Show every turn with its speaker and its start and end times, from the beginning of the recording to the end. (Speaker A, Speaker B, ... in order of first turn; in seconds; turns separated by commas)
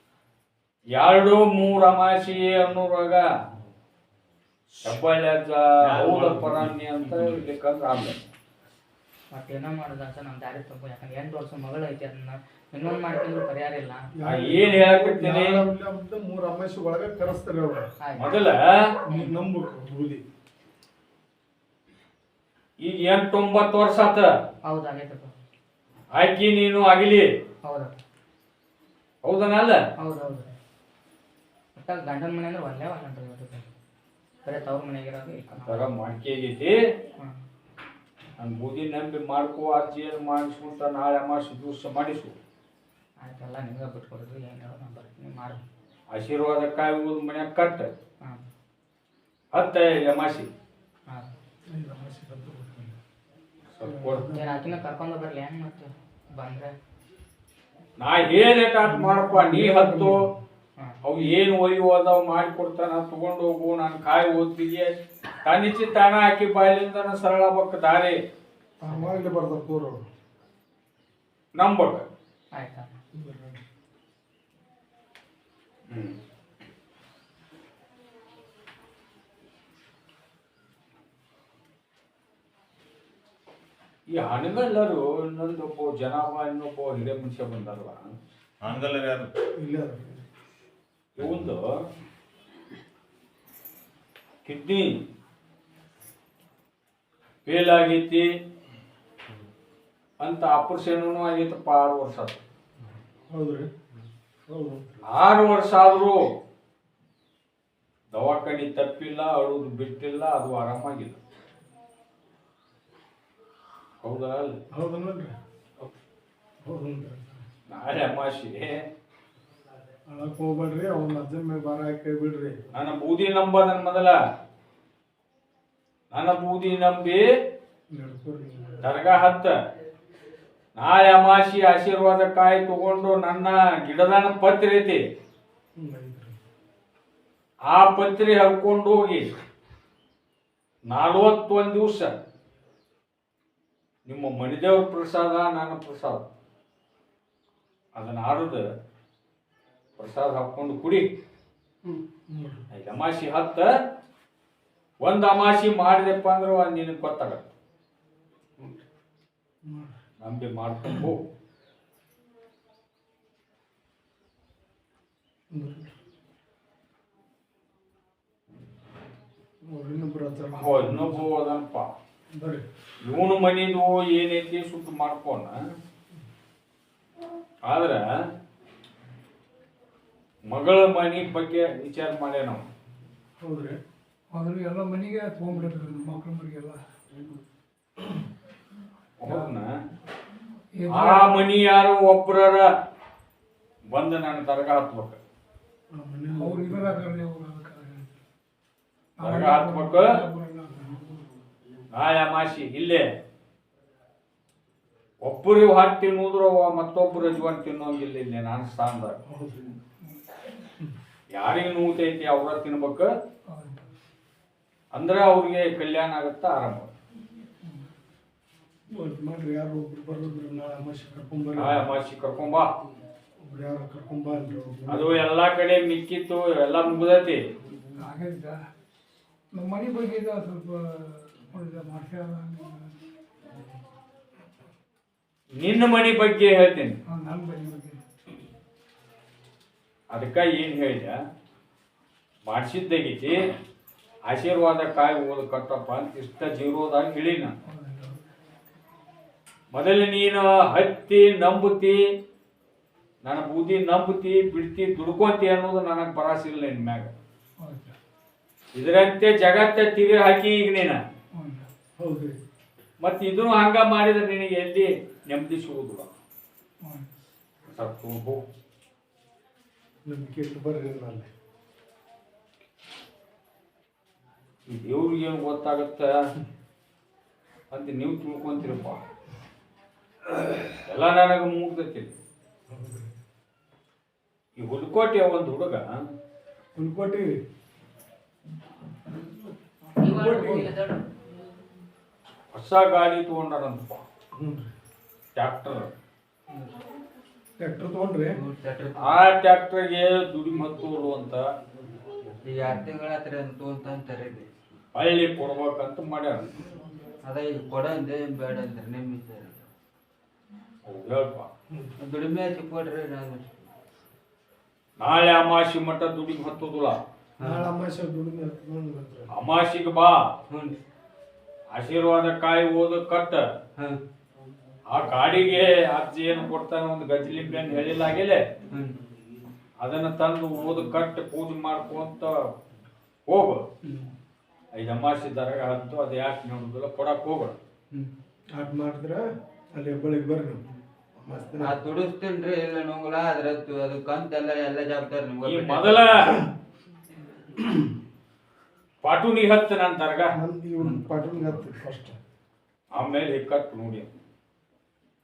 Speaker A: 0.9-3.3, Speaker A: 4.8-8.2, Speaker B: 5.8-7.4, Speaker C: 9.3-14.1, Speaker D: 14.1-17.9, Speaker A: 14.2-15.6, Speaker C: 18.0-18.3, Speaker A: 18.2-18.9, Speaker D: 19.0-20.2, Speaker C: 19.1-19.3, Speaker A: 22.8-24.3, Speaker C: 24.6-25.3, Speaker A: 26.1-27.3, Speaker C: 27.6-27.9, Speaker A: 29.2-29.8, Speaker C: 30.0-30.5, Speaker C: 31.8-33.7, Speaker C: 34.4-35.9, Speaker A: 35.6-36.8, Speaker A: 38.4-42.3, Speaker C: 43.2-45.6, Speaker A: 46.1-47.9, Speaker A: 49.5-50.5, Speaker D: 51.7-53.0, Speaker A: 53.7-54.3, Speaker D: 53.8-54.8, Speaker C: 54.3-56.7, Speaker A: 58.0-60.3, Speaker D: 58.8-60.3, Speaker A: 61.0-64.9, Speaker A: 65.4-68.2, Speaker D: 68.8-70.0, Speaker A: 71.5-72.0, Speaker C: 72.5-72.9, Speaker D: 73.1-73.6, Speaker A: 75.9-76.2, Speaker A: 84.1-88.1, Speaker B: 88.6-89.3, Speaker D: 89.6-90.2, Speaker A: 91.2-91.7, Speaker B: 91.2-91.5, Speaker A: 94.4-94.9, Speaker A: 97.5-98.2, Speaker A: 100.2-102.4, Speaker D: 102.8-103.7, Speaker D: 104.5-105.1, Speaker A: 105.0-106.3, Speaker A: 108.1-111.2, Speaker A: 114.0-114.6, Speaker D: 114.7-115.3, Speaker D: 116.6-117.4, Speaker A: 117.7-118.8, Speaker D: 120.1-122.6, Speaker A: 122.7-124.2, Speaker A: 126.1-127.2, Speaker D: 127.9-128.9, Speaker A: 128.8-129.5, Speaker A: 130.7-135.0, Speaker D: 135.8-136.4, Speaker A: 137.7-139.3, Speaker A: 140.9-142.2, Speaker A: 144.1-146.2, Speaker A: 147.9-148.7, Speaker A: 150.0-151.1, Speaker D: 152.3-152.6, Speaker A: 152.7-153.7, Speaker A: 155.0-157.5, Speaker D: 159.6-159.9, Speaker A: 160.2-161.2, Speaker D: 165.5-165.9, Speaker D: 169.6-171.3, Speaker A: 170.5-171.9, Speaker D: 172.3-172.6, Speaker A: 173.0-175.6, Speaker A: 177.7-178.0, Speaker A: 180.5-182.6, Speaker D: 183.4-183.8, Speaker E: 184.3-186.8, Speaker A: 189.2-189.7, Speaker E: 190.8-191.4, Speaker A: 190.9-192.7, Speaker A: 193.9-195.2, Speaker D: 195.9-197.0, Speaker E: 196.4-198.1, Speaker E: 199.2-200.9, Speaker A: 199.2-200.2, Speaker A: 201.9-203.1, Speaker A: 205.2-209.2, Speaker D: 209.3-209.7, Speaker A: 211.3-213.1, Speaker E: 213.5-213.8, Speaker A: 214.9-216.9, Speaker D: 218.9-221.9, Speaker A: 221.6-222.7, Speaker D: 223.4-225.2, Speaker A: 224.9-227.4, Speaker E: 228.0-228.6, Speaker E: 229.5-232.9, Speaker A: 235.6-237.0, Speaker E: 237.1-238.0, Speaker A: 240.1-241.2, Speaker A: 242.4-243.5, Speaker A: 244.3-247.5, Speaker E: 247.7-248.2, Speaker A: 249.7-252.0, Speaker A: 253.2-257.1, Speaker E: 257.6-257.9, Speaker A: 258.7-261.0, Speaker E: 261.3-261.7, Speaker D: 262.0-262.4, Speaker A: 263.0-266.1, Speaker E: 266.8-267.1, Speaker A: 267.7-268.4, Speaker D: 270.1-271.3, Speaker A: 274.7-276.1, Speaker A: 277.7-279.0, Speaker A: 280.9-282.1, Speaker D: 282.7-283.1, Speaker A: 284.6-285.8, Speaker D: 286.8-287.4, Speaker F: 289.9-291.3, Speaker D: 290.0-290.7, Speaker A: 292.5-294.0, Speaker D: 294.3-294.7, Speaker A: 295.4-295.9, Speaker D: 297.6-298.4, Speaker F: 298.3-299.2, Speaker A: 299.0-301.5, Speaker F: 302.4-304.5, Speaker A: 304.9-306.5, Speaker F: 307.2-309.6, Speaker A: 310.9-311.5, Speaker F: 312.0-313.5, Speaker A: 315.0-317.0, Speaker F: 317.4-317.7, Speaker D: 317.4-319.3, Speaker A: 319.3-320.2, Speaker F: 320.5-320.7, Speaker A: 321.7-323.4, Speaker A: 324.9-328.5, Speaker F: 328.7-329.0, Speaker A: 329.8-332.4, Speaker A: 333.3-333.6, Speaker D: 333.8-334.1, Speaker A: 334.8-337.5, Speaker D: 337.9-340.6, Speaker D: 341.2-341.8, Speaker F: 341.6-346.1, Speaker A: 345.4-346.3, Speaker A: 349.0-350.4, Speaker D: 350.3-352.2, Speaker A: 352.9-354.1